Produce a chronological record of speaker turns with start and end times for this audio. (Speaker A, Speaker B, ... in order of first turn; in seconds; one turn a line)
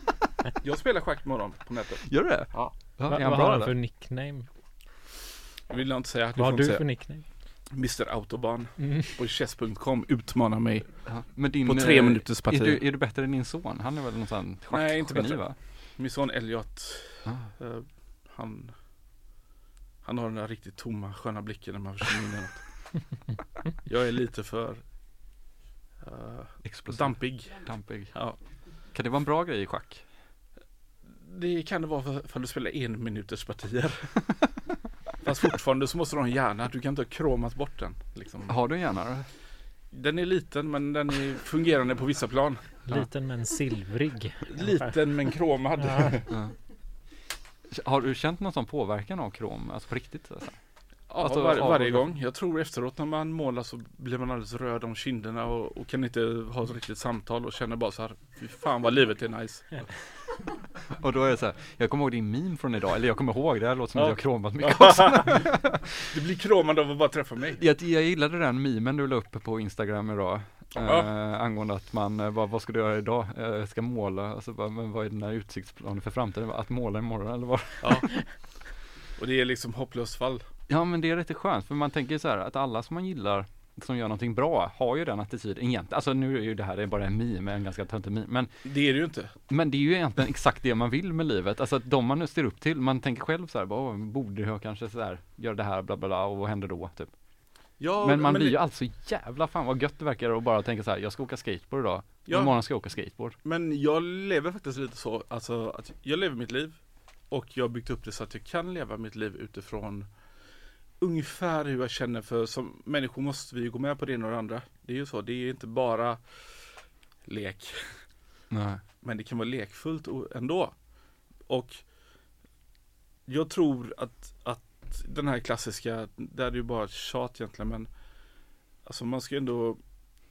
Speaker A: 0.6-2.8
Speaker B: 2.1-3.8
Speaker C: 3.1-4.5
Speaker A: 5.7-12.8
Speaker C: 6.4-7.3
Speaker B: 11.1-15.6
Speaker A: 14.7-18.8
Speaker B: 17.3-17.5
Speaker A: 20.0-22.9
Speaker A: 23.9-24.8
Speaker A: 26.0-28.4
Speaker B: 26.6-28.4
Speaker B: 28.9-30.1
Speaker A: 31.1-34.3
Speaker A: 35.2-38.6
Speaker B: 38.5-39.3
Speaker A: 39.9-42.8
Speaker C: 42.9-45.2
Speaker A: 44.5-46.3
Speaker C: 45.8-46.1
Speaker B: 46.3-46.6
Speaker B: 47.7-52.1
Speaker A: 51.1-59.9
Speaker B: 60.9-65.9
Speaker A: 64.0-65.4
Speaker A: 66.1-67.6
Speaker B: 67.6-78.1
Speaker A: 70.8-71.1
Speaker A: 77.8-78.6
Speaker A: 79.2-80.5
Speaker B: 80.7-88.6
Speaker A: 88.6-89.3
Speaker B: 89.5-97.1
Speaker A: 97.8-98.6
Speaker B: 98.0-103.4
Speaker A: 102.3-110.1
Speaker A: 111.0-118.1
Speaker B: 118.5-118.8
Speaker A: 119.0-120.9
Speaker A: 121.5-121.9
Speaker A: 123.3-127.9
Speaker A: 128.8-129.8